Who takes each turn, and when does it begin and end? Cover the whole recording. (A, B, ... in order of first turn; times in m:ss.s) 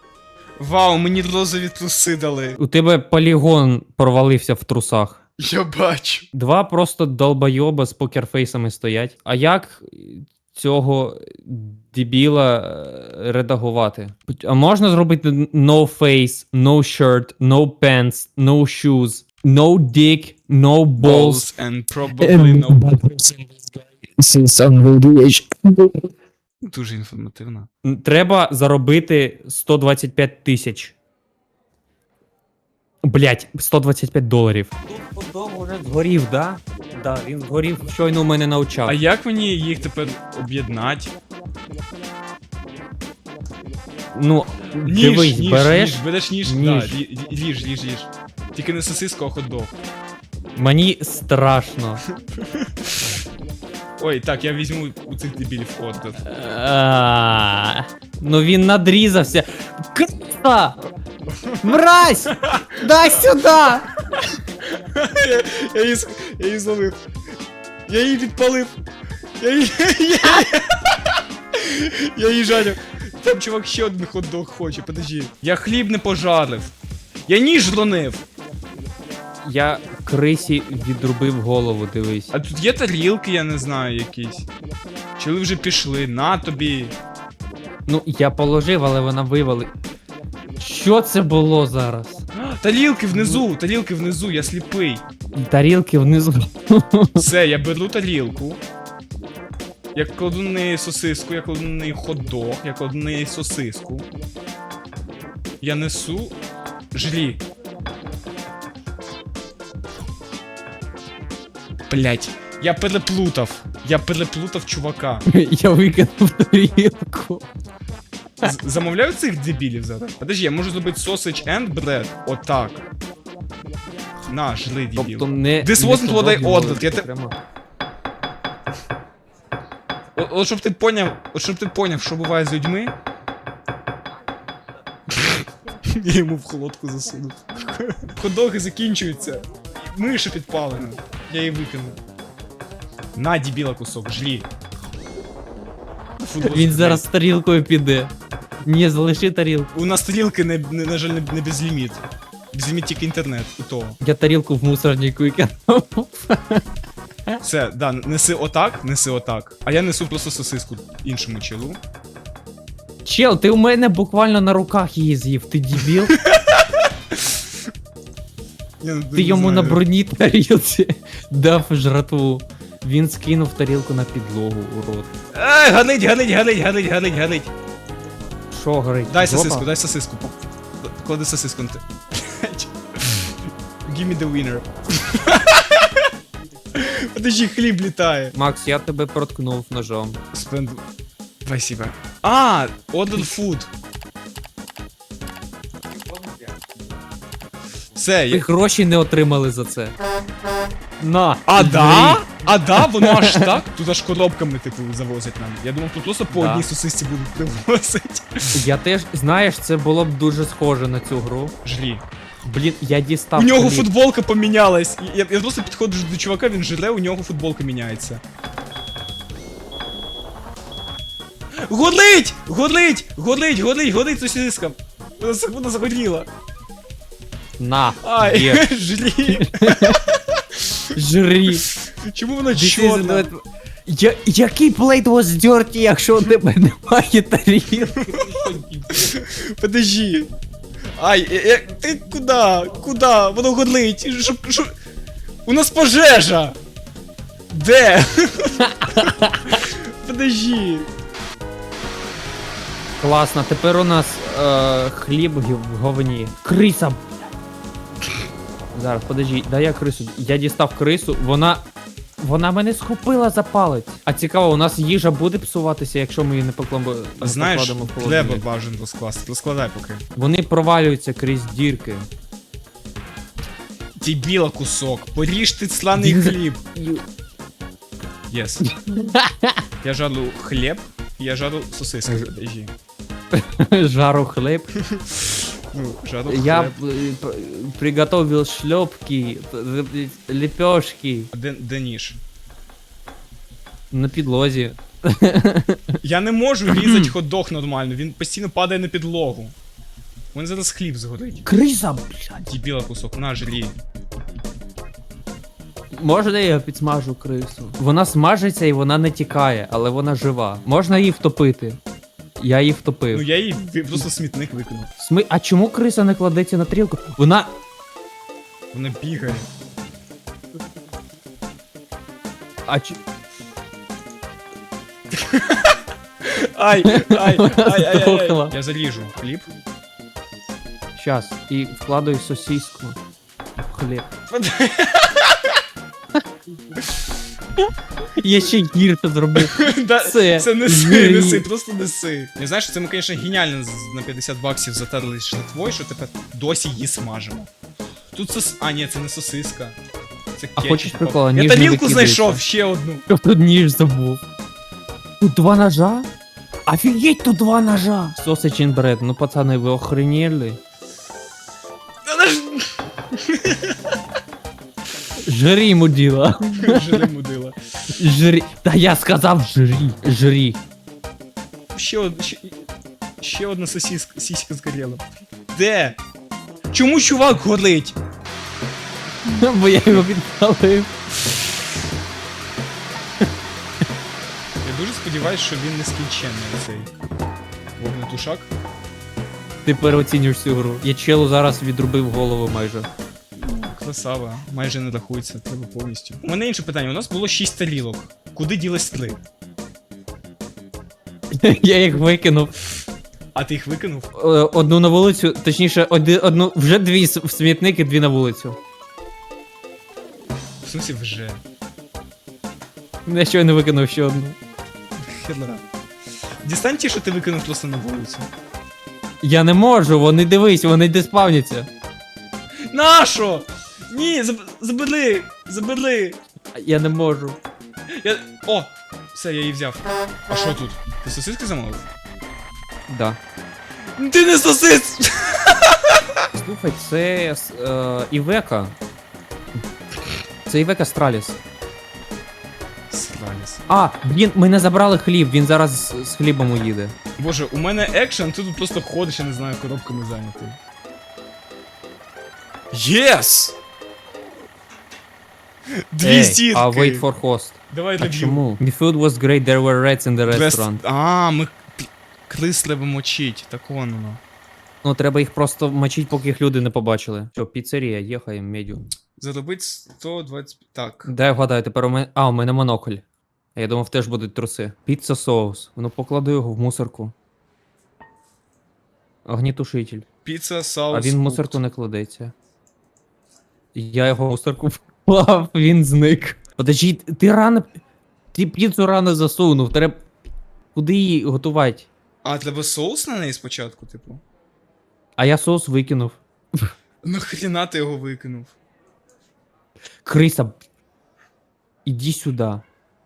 0:00.6-0:02.6 A
0:02.6-0:05.2 B
0:05.4-0:06.2 A
0:06.3-0:21.5 B
0:21.0-0:22.9 A
0:22.2-0:23.6 B
0:24.2-0:26.0 B
0:26.7-0:27.7 A
0:27.8-0:30.9 B
0:33.0-0:39.0 B
0:38.8-0:41.1 A
0:44.1-0:47.0 B
0:44.8-0:49.8 A
0:50.6-0:52.0 B
0:52.2-0:53.2 A
0:54.0-0:56.2 A
0:56.2-1:00.8 B
1:01.3-1:02.9 A
1:01.6-1:03.9 B
1:04.6-1:07.0 A
1:07.9-1:08.8 A
1:09.4-1:11.0 A
1:11.5-1:16.7 A
1:17.3-1:18.2 A
1:19.4-1:22.3 B
1:22.3-1:24.5 A
1:25.2-1:27.0 A
1:27.9-1:29.7 B
1:30.6-1:32.2 B
1:32.3-1:35.0 A
1:33.1-1:33.4 B
1:35.3-1:37.3 B
1:37.2-1:38.6 A
1:39.9-1:44.1 A
1:45.6-1:46.4 A
1:46.9-1:47.4 A
1:51.9-1:55.2 A
1:55.3-1:57.4 B
1:58.4-2:02.8 A
2:04.3-2:07.1 A
2:05.0-2:07.4 B
2:10.2-2:12.9 A
2:15.1-2:22.0 A
2:23.1-2:24.5 A
2:26.2-2:27.1 A
2:26.4-2:28.1 B
2:28.6-2:29.7 B
2:29.7-2:34.0 A
2:34.0-2:36.6 B
2:37.4-2:41.8 A
2:43.0-2:46.2 B
2:45.8-2:47.4 A
2:48.8-2:49.8 A
2:49.1-2:55.1 B
2:55.3-2:57.5 A
2:58.5-2:59.7 B
2:59.1-3:06.1 A
3:06.7-3:08.3 A
3:08.3-3:10.2 B
3:10.3-3:10.8 A
3:11.4-3:13.7 A
3:18.0-3:18.5 A
3:18.3-3:19.9 B
3:21.0-3:23.5 B
3:21.4-3:28.6 A
3:26.3-3:26.7 B
3:28.5-3:31.5 B
3:31.6-3:32.0 A
3:32.4-3:33.9 B
3:33.4-3:38.2 A
3:41.6-3:46.3 A
3:47.6-3:48.7 B
3:48.0-3:50.9 A
3:49.2-3:50.0 B
3:50.9-3:51.7 B
3:51.5-3:53.3 A
3:52.5-3:59.2 B
3:58.9-4:00.3 A
4:01.0-4:04.7 A
4:05.4-4:06.6 A
4:07.5-4:10.9 A
4:08.6-4:09.6 B
4:13.0-4:17.0 B
4:18.7-4:21.6 B
4:22.2-4:28.4 B
4:27.2-4:30.0 A
4:30.2-4:32.1 B
4:34.0-4:36.6 A
4:36.0-4:37.0 B
4:38.3-4:38.7 A
4:38.6-4:39.6 B
4:39.8-4:42.7 A
4:43.3-4:44.7 B
4:44.8-4:46.8 A
4:46.2-4:51.3 B
4:51.3-4:52.2 A
4:53.9-4:56.0 B
4:56.0-4:59.5 A
4:56.7-4:57.1 B
5:00.3-5:01.4 A
5:01.4-5:02.5 B
5:02.4-5:03.8 A
5:05.9-5:11.8 B
5:12.4-5:13.2 B
5:13.1-5:14.9 A
5:15.0-5:17.5 B
5:18.7-5:19.5 A
5:22.7-5:23.0 B
5:25.1-5:29.5 A
5:26.8-5:28.5 B
5:31.0-5:33.0 B
5:33.7-5:34.1 B
5:34.3-5:35.5 A
5:38.2-5:41.4 B
5:39.3-5:47.5 A
5:48.1-5:49.8 A
5:50.4-5:53.0 A
5:50.6-5:52.4 B
5:53.1-5:54.2 B
5:55.2-5:56.1 B
5:56.7-6:00.6 B
6:02.0-6:04.0 A
6:05.2-6:07.1 B
6:06.5-6:07.6 A
6:08.0-6:10.6 B
6:11.7-6:12.6 A
6:13.2-6:16.0 A
6:16.7-6:18.0 A
6:19.2-6:20.9 B
6:24.6-6:26.9 A
6:27.8-6:28.5 A
6:29.6-6:32.9 B
6:33.4-6:39.2 A
6:41.3-6:42.5 B
6:43.3-6:44.1 A
6:44.1-6:48.6 B
6:50.6-6:51.4 A
6:53.0-6:54.4 B
6:55.0-6:55.6 A
6:56.4-6:58.3 A
6:59.2-7:01.7 B
7:02.7-7:06.2 A
7:06.6-7:07.4 B
7:07.9-7:11.8 A
7:12.9-7:13.2 B
7:14.0-7:16.0 A
7:16.4-7:18.7 B
7:20.4-7:21.4 B
7:22.9-7:23.6 A
7:23.7-7:26.9 B
7:27.2-7:30.6 A
7:32.7-7:33.6 A
7:35.9-7:37.0 A
7:36.0-7:40.8 B
7:37.7-7:38.5 A
7:40.3-7:44.2 A
7:44.8-7:48.8 B
7:49.2-7:51.1 A
7:51.0-7:53.0 B
7:53.6-7:57.1 B
7:59.2-8:00.0 B
8:00.2-8:01.6 A
8:00.9-8:02.3 B
8:03.7-8:07.7 B
8:08.3-8:10.0 B
8:10.7-8:11.9 B
8:12.2-8:14.2 A
8:15.2-8:16.7 B
8:17.0-8:18.6 A
8:20.0-8:20.6 B
8:21.8-8:22.6 B